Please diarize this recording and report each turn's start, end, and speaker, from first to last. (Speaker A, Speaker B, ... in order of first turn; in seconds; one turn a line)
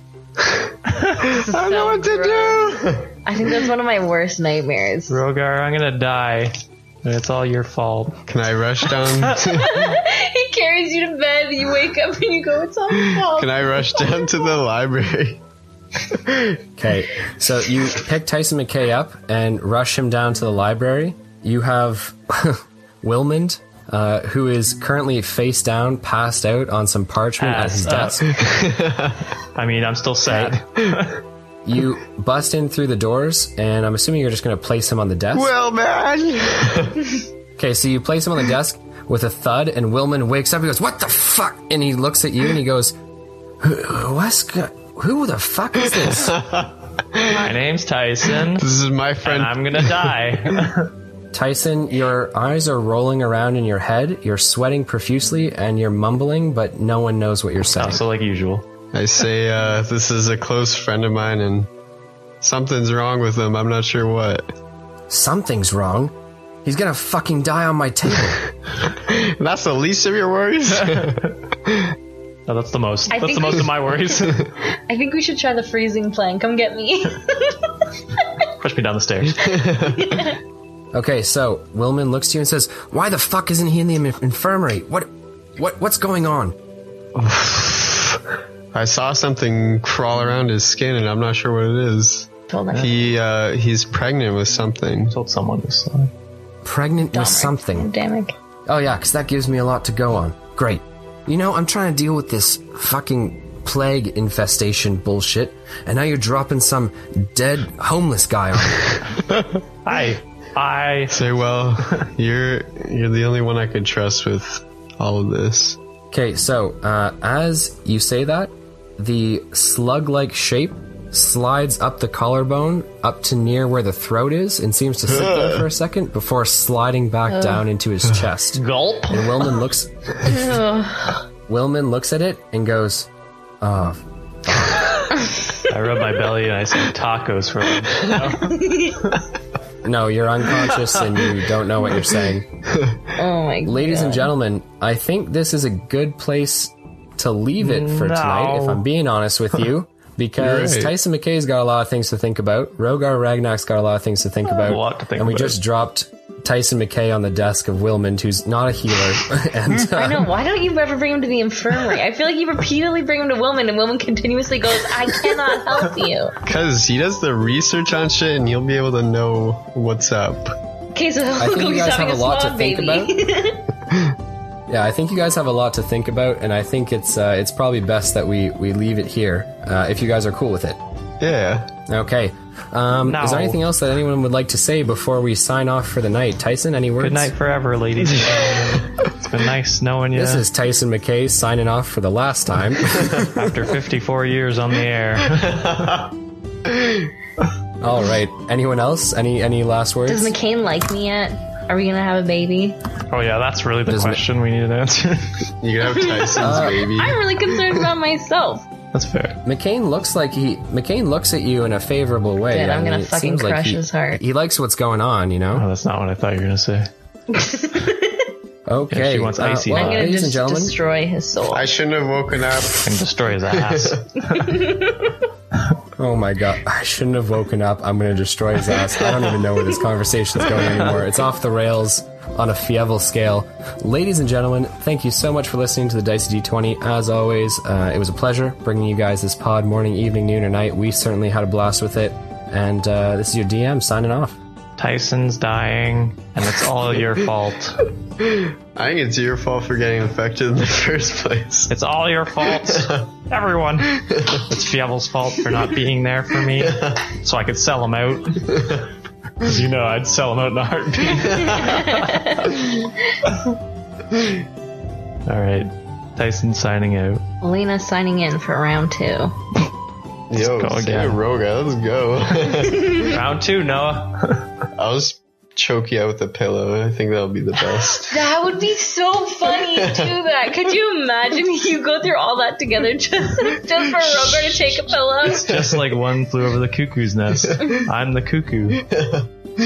Speaker A: 0.9-1.2
Speaker B: 1.2-3.1
Speaker C: 1.2-5.2
Speaker A: 5.1-8.2
Speaker B: 8.2-9.9
Speaker C: 9.5-13.7
Speaker B: 13.1-15.4
Speaker B: 16.1-16.6
Speaker D: 16.8-28.4
Speaker A: 27.4-28.6
Speaker B: 28.3-29.2
Speaker A: 29.5-31.2
Speaker D: 30.3-30.6
Speaker D: 31.6-35.5
Speaker B: 35.3-37.1
Speaker D: 37.6-42.9
Speaker D: 43.6-46.4
Speaker B: 46.2-47.5
Speaker A: 47.3-48.7
Speaker B: 48.5-50.1
Speaker A: 49.2-50.9
Speaker D: 51.3-58.0
Speaker A: 57.8-58.6
Speaker B: 58.9-61.7
Speaker B: 62.4-64.5
Speaker D: 65.1-66.1
Speaker D: 66.6-68.4
Speaker B: 69.0-71.9
Speaker A: 70.9-71.1
Speaker A: 72.5-74.5
Speaker C: 73.1-77.6
Speaker A: 78.6-79.5
Speaker B: 79.4-80.3
Speaker C: 79.9-80.3
Speaker D: 80.9-86.5
Speaker A: 87.2-88.1
Speaker B: 88.7-95.1
Speaker C: 92.5-92.9
Speaker A: 95.1-96.1
Speaker D: 96.6-97.9
Speaker C: 97.1-98.3
Speaker D: 98.7-109.0
Speaker A: 109.8-111.3
Speaker B: 111.1-115.8
Speaker D: 116.1-130.4
Speaker B: 125.1-125.6
Speaker C: 127.3-127.7
Speaker A: 128.5-129.4
Speaker C: 130.2-131.2
Speaker D: 131.5-133.1
Speaker D: 133.6-135.0
Speaker A: 135.5-139.2
Speaker C: 138.4-139.0
Speaker D: 139.8-142.4
Speaker B: 142.7-143.0
Speaker C: 143.2-144.3
Speaker D: 143.7-160.3
Speaker A: 147.6-148.8
Speaker B: 150.4-150.9
Speaker A: 154.4-155.6
Speaker C: 159.9-166.4
Speaker B: 166.4-170.6
Speaker C: 170.9-173.6
Speaker D: 171.4-173.1
Speaker D: 174.7-180.8
Speaker B: 181.2-181.7
Speaker D: 181.9-187.3
Speaker A: 183.0-183.6
Speaker A: 187.0-190.4
Speaker D: 190.1-193.4
Speaker A: 193.3-195.9
Speaker B: 195.5-196.0
Speaker B: 196.7-196.9
Speaker D: 197.8-200.3
Speaker C: 200.1-202.8
Speaker A: 203.1-205.5
Speaker D: 203.9-204.2
Speaker B: 205.6-207.8
Speaker C: 205.8-208.7
Speaker D: 206.4-206.9
Speaker A: 208.9-209.4
Speaker D: 209.4-215.7
Speaker C: 212.5-214.2
Speaker A: 215.5-216.9
Speaker C: 217.3-218.3
Speaker D: 218.7-220.8
Speaker A: 218.9-220.1
Speaker C: 219.7-221.7
Speaker B: 221.5-224.0
Speaker A: 222.7-224.9
Speaker C: 224.3-225.1
Speaker D: 226.0-244.4
Speaker A: 244.8-247.9
Speaker B: 248.2-251.7
Speaker A: 251.7-258.6
Speaker B: 252.6-253.0
Speaker A: 259.4-262.6
Speaker B: 261.4-261.8
Speaker C: 261.6-262.5
Speaker A: 265.3-267.2
Speaker C: 267.4-269.4
Speaker B: 270.3-273.2
Speaker A: 270.3-271.2
Speaker C: 272.8-273.0
Speaker A: 272.9-274.4
Speaker B: 274.7-278.2
Speaker C: 278.1-285.5
Speaker B: 279.7-280.1
Speaker B: 284.0-284.5
Speaker A: 285.2-288.8
Speaker B: 285.2-285.9
Speaker B: 288.9-289.2